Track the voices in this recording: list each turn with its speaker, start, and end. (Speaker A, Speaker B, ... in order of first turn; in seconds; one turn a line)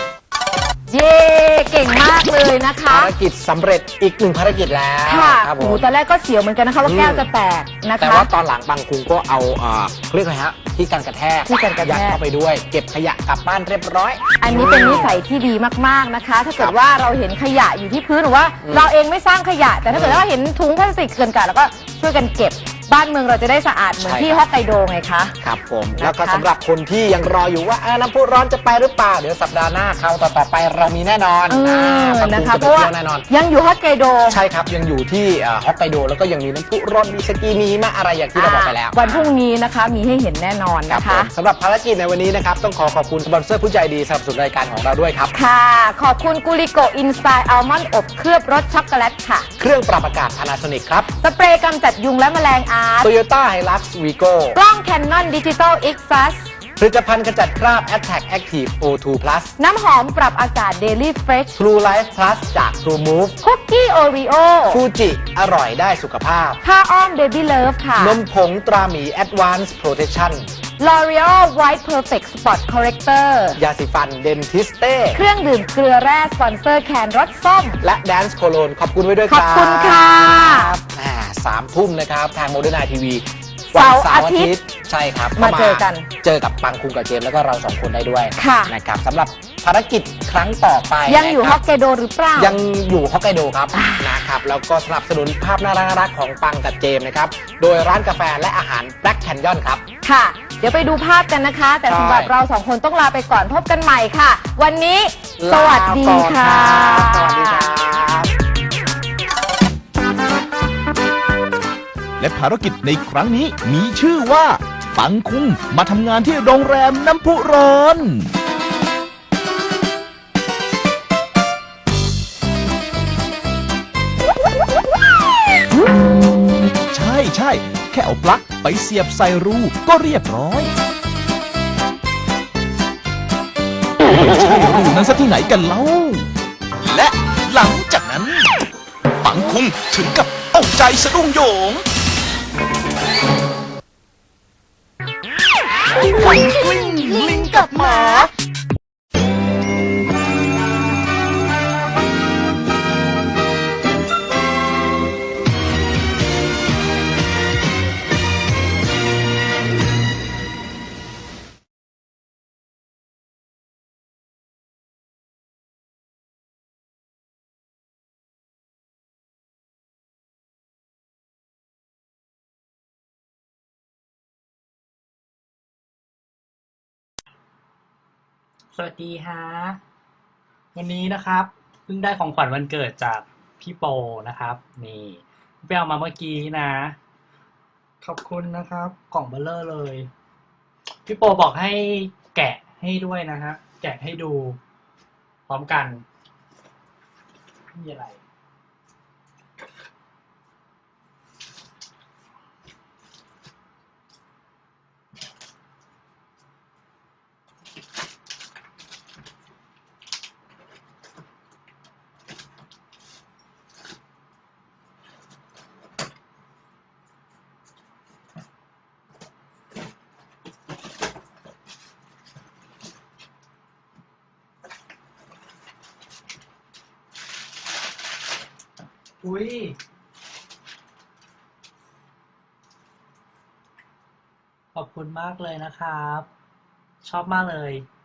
Speaker A: 0.9-3.1
Speaker B: 2.9-5.8
Speaker A: 5.0-8.3
Speaker B: 6.8-7.2
Speaker B: 8.0-15.2
Speaker A: 11.5-12.2
Speaker A: 14.4-25.3
Speaker B: 18.6-18.9
Speaker B: 19.9-20.2
Speaker B: 24.0-24.4
Speaker B: 25.4-33.3
Speaker A: 25.9-26.4
Speaker A: 31.5-34.4
Speaker B: 34.3-39.3
Speaker A: 38.3-41.3
Speaker B: 40.9-45.3
Speaker A: 45.3-49.5
Speaker B: 49.6-51.1
Speaker A: 51.2-53.1
Speaker B: 53.0-54.6
Speaker A: 54.5-56.5
Speaker B: 56.8-59.5
Speaker A: 59.6-61.5
Speaker B: 61.5-63.4
Speaker A: 63.4-64.8
Speaker B: 64.7-66.6
Speaker A: 66.6-68.2
Speaker B: 68.0-70.5
Speaker A: 70.8-73.6
Speaker B: 73.6-75.2
Speaker A: 75.1-77.8
Speaker B: 77.8-91.6
Speaker A: 79.3-80.7
Speaker A: 83.7-84.5
Speaker A: 85.3-86.1
Speaker A: 88.4-88.7
Speaker A: 91.0-92.6
Speaker B: 92.3-99.8
Speaker A: 93.7-94.2
Speaker A: 100.0-107.7
Speaker B: 101.9-102.3
Speaker B: 105.4-108.3
Speaker C: 112.2-118.3
Speaker C: 126.9-130.7
Speaker C: 134.1-136.3
Speaker C: 136.8-138.5
Speaker C: 139.2-141.8
Speaker A: 146.2-148.3
Speaker C: 146.2-148.3
Speaker D: 178.7-179.8
Speaker D: 180.7-186.9
Speaker D: 188.0-190.1
Speaker D: 191.0-194.6
Speaker D: 195.5-196.0
Speaker D: 197.7-198.2
Speaker D: 229.2-229.8
Speaker D: 234.7-236.3
Speaker D: 237.0-237.8